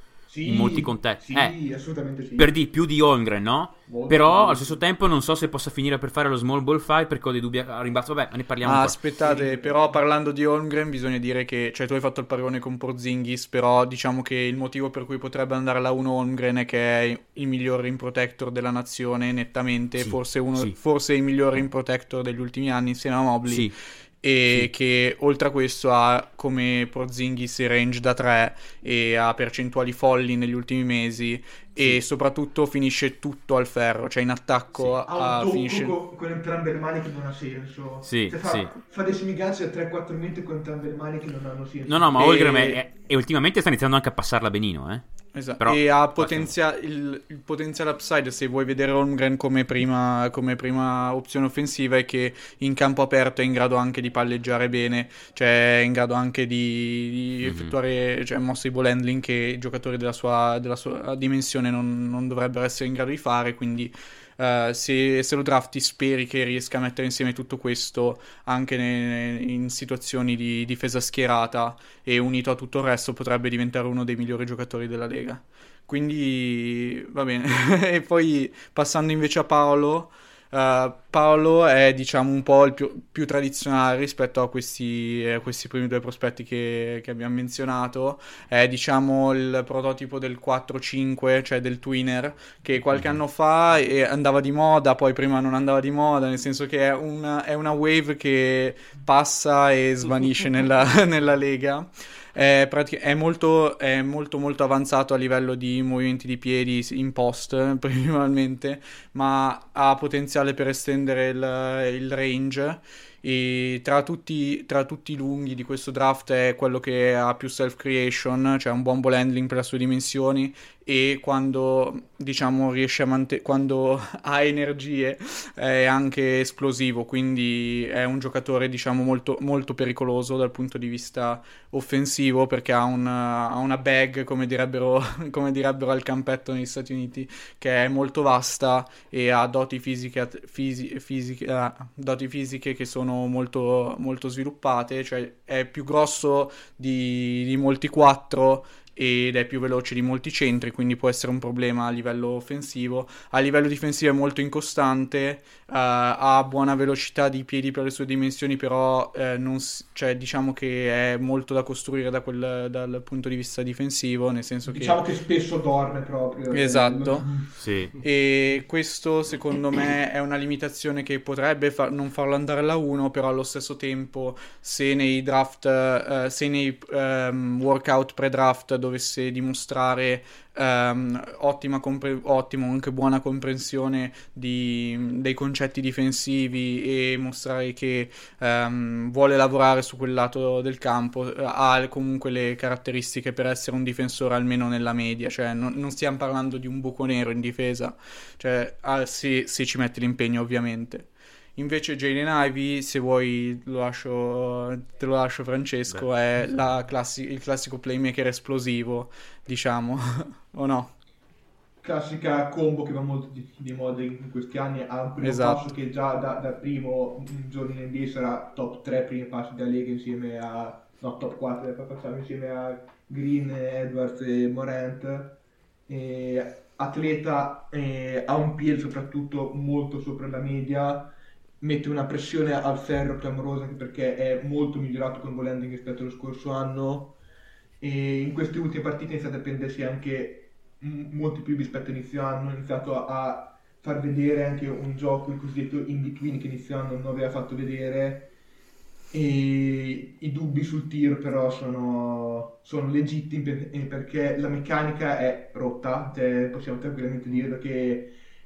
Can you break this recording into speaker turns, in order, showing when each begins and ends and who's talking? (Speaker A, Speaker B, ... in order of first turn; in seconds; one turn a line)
Speaker A: 0.3-2.5
Speaker B: 0.5-1.6
Speaker B: 2.4-9.0
Speaker A: 3.9-4.8
Speaker C: 8.6-36.0
Speaker A: 9.2-9.8
Speaker B: 20.0-20.8
Speaker B: 23.5-23.8
Speaker A: 35.0-42.8
Speaker B: 38.0-38.7
Speaker B: 41.9-45.0
Speaker C: 45.3-165.0
Speaker B: 45.6-46.5
Speaker B: 57.4-57.7
Speaker B: 92.9-93.2
Speaker A: 164.7-167.5
Speaker C: 166.5-167.4
Speaker B: 167.6-167.9
Speaker C: 168.0-210.9
Speaker A: 211.8-237.2
Speaker C: 215.2-215.7
Speaker A: 237.8-248.3
Speaker A: 249.1-258.1